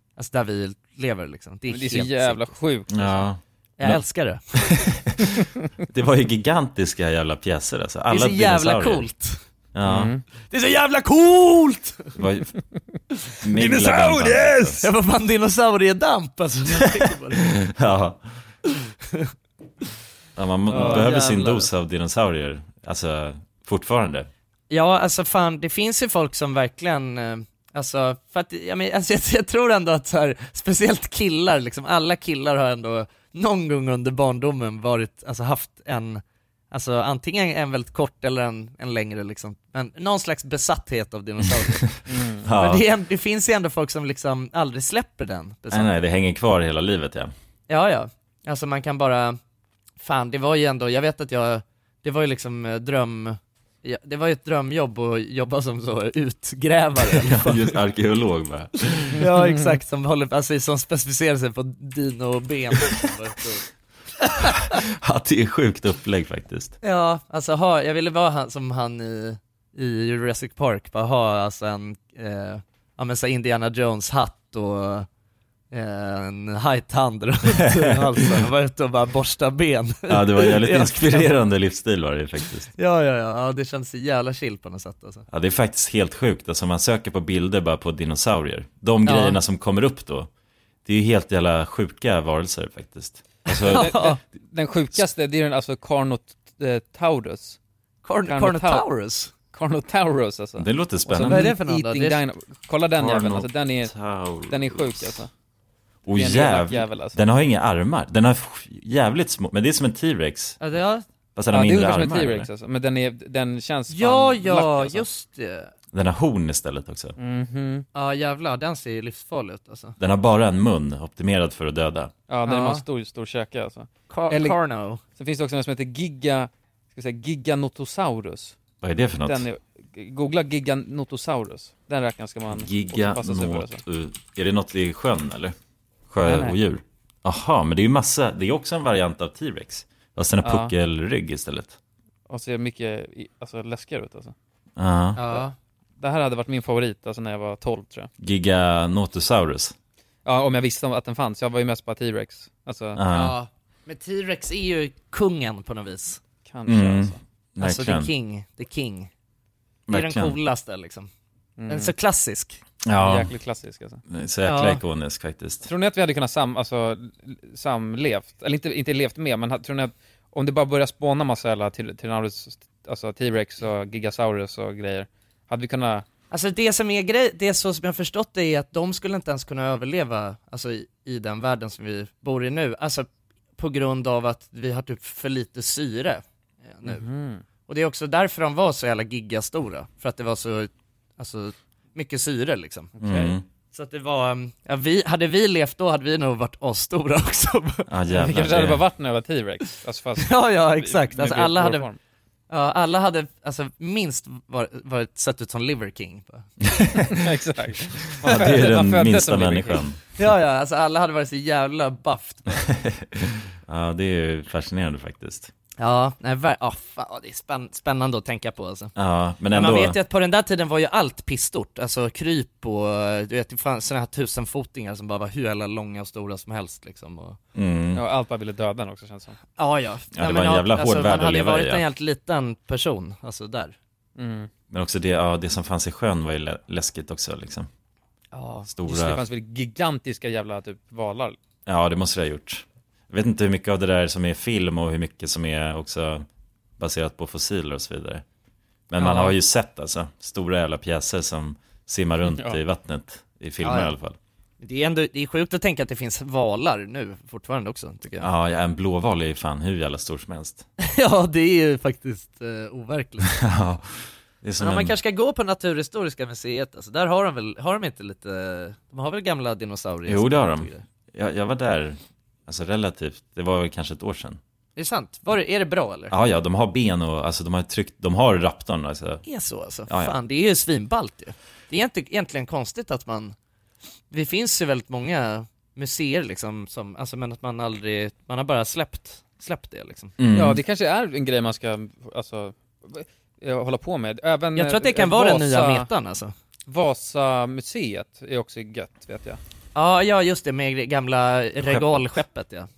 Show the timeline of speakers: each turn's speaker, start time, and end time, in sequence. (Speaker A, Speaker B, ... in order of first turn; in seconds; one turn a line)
Speaker A: 0.2-2.5
Speaker B: 1.7-3.3
Speaker C: 2.9-4.0
Speaker A: 3.8-4.6
Speaker C: 4.5-5.3
Speaker C: 5.9-9.1
Speaker A: 8.1-9.4
Speaker C: 9.7-10.1
Speaker B: 9.8-10.2
Speaker A: 10.5-12.1
Speaker C: 12.2-12.5
Speaker C: 13.4-14.8
Speaker B: 13.8-14.8
Speaker A: 14.8-17.5
Speaker C: 17.4-18.2
Speaker C: 20.4-24.3
Speaker B: 20.7-21.1
Speaker A: 20.7-21.7
Speaker A: 24.7-42.0
Speaker C: 41.6-42.8
Speaker B: 42.1-42.5
Speaker A: 42.5-45.9
Speaker C: 45.7-47.3
Speaker A: 47.7-49.4
Speaker A: 50.0-57.8
Speaker C: 57.1-59.2
Speaker A: 59.2-63.7
Speaker B: 59.4-59.7
Speaker C: 64.7-66.7
Speaker A: 66.8-75.1
Speaker A: 75.7-81.3
Speaker C: 77.6-78.0
Speaker C: 80.1-82.7
Speaker A: 82.8-85.3
Speaker C: 85.3-90.3
Speaker A: 89.0-89.4
Speaker C: 90.8-93.9
Speaker A: 93.5-94.2
Speaker B: 93.7-97.6
Speaker A: 98.0-99.3
Speaker B: 98.3-98.9
Speaker B: 99.5-103.9
Speaker C: 100.6-101.5
Speaker A: 101.2-102.2
Speaker C: 103.0-105.2
Speaker B: 104.5-105.3
Speaker C: 106.0-110.6
Speaker B: 106.1-107.2
Speaker A: 110.6-111.0
Speaker C: 111.3-112.5
Speaker B: 111.5-115.0
Speaker A: 113.9-115.7
Speaker C: 115.9-117.1
Speaker B: 117.2-117.8
Speaker A: 117.9-120.0
Speaker C: 120.0-122.1
Speaker B: 122.3-124.6
Speaker A: 122.5-122.8
Speaker A: 124.1-125.0
Speaker B: 125.2-128.6
Speaker C: 128.8-129.5
Speaker B: 129.2-133.8
Speaker C: 132.5-135.6
Speaker C: 136.1-141.8
Speaker B: 136.2-136.6
Speaker B: 140.4-140.7
Speaker B: 142.3-144.3
Speaker C: 144.8-145.2
Speaker A: 145.2-145.5
Speaker B: 146.0-148.1
Speaker C: 148.2-149.7
Speaker B: 150.3-153.0
Speaker C: 153.0-153.4
Speaker A: 153.1-156.2
Speaker B: 156.5-157.2
Speaker C: 156.7-158.1
Speaker A: 157.6-159.1
Speaker C: 159.9-160.4
Speaker A: 159.9-161.1
Speaker B: 161.6-161.9
Speaker A: 161.7-162.6
Speaker C: 162.8-163.3
Speaker B: 163.0-164.0
Speaker C: 164.1-165.7
Speaker A: 164.4-164.8
Speaker B: 165.6-176.1
Speaker A: 176.3-183.1
Speaker A: 183.6-187.1
Speaker B: 186.8-187.4
Speaker A: 187.7-192.9
Speaker C: 193.0-193.4
Speaker B: 193.0-193.3
Speaker A: 193.7-197.9
Speaker C: 197.9-198.8
Speaker B: 198.1-202.0
Speaker A: 200.2-201.9
Speaker A: 202.5-206.5
Speaker C: 206.6-207.2
Speaker B: 207.1-209.8
Speaker C: 208.2-210.0
Speaker A: 210.2-212.6
Speaker C: 212.7-215.5
Speaker A: 215.8-218.9
Speaker C: 219.0-220.0
Speaker A: 219.5-227.4
Speaker C: 227.6-228.0
Speaker B: 227.9-229.4
Speaker A: 229.6-233.8
Speaker C: 230.1-231.8
Speaker B: 234.2-234.5
Speaker C: 234.7-237.7
Speaker A: 238.3-238.7
Speaker C: 238.7-239.2
Speaker B: 238.9-241.4
Speaker C: 241.7-246.3
Speaker C: 246.8-248.2
Speaker C: 248.9-254.2
Speaker B: 249.0-249.4
Speaker B: 252.3-252.6
Speaker A: 253.6-253.9
Speaker A: 254.6-258.3
Speaker C: 258.2-260.6
Speaker A: 260.8-263.3
Speaker C: 263.3-263.9
Speaker C: 264.4-264.9
Speaker A: 264.6-270.8
Speaker C: 270.1-274.4
Speaker A: 274.8-276.1
Speaker C: 276.1-279.2
Speaker A: 279.3-283.4
Speaker C: 279.9-280.2
Speaker A: 284.1-290.1
Speaker C: 290.2-290.6
Speaker B: 290.3-295.9
Speaker A: 294.6-296.3
Speaker B: 296.7-299.4
Speaker A: 299.8-302.7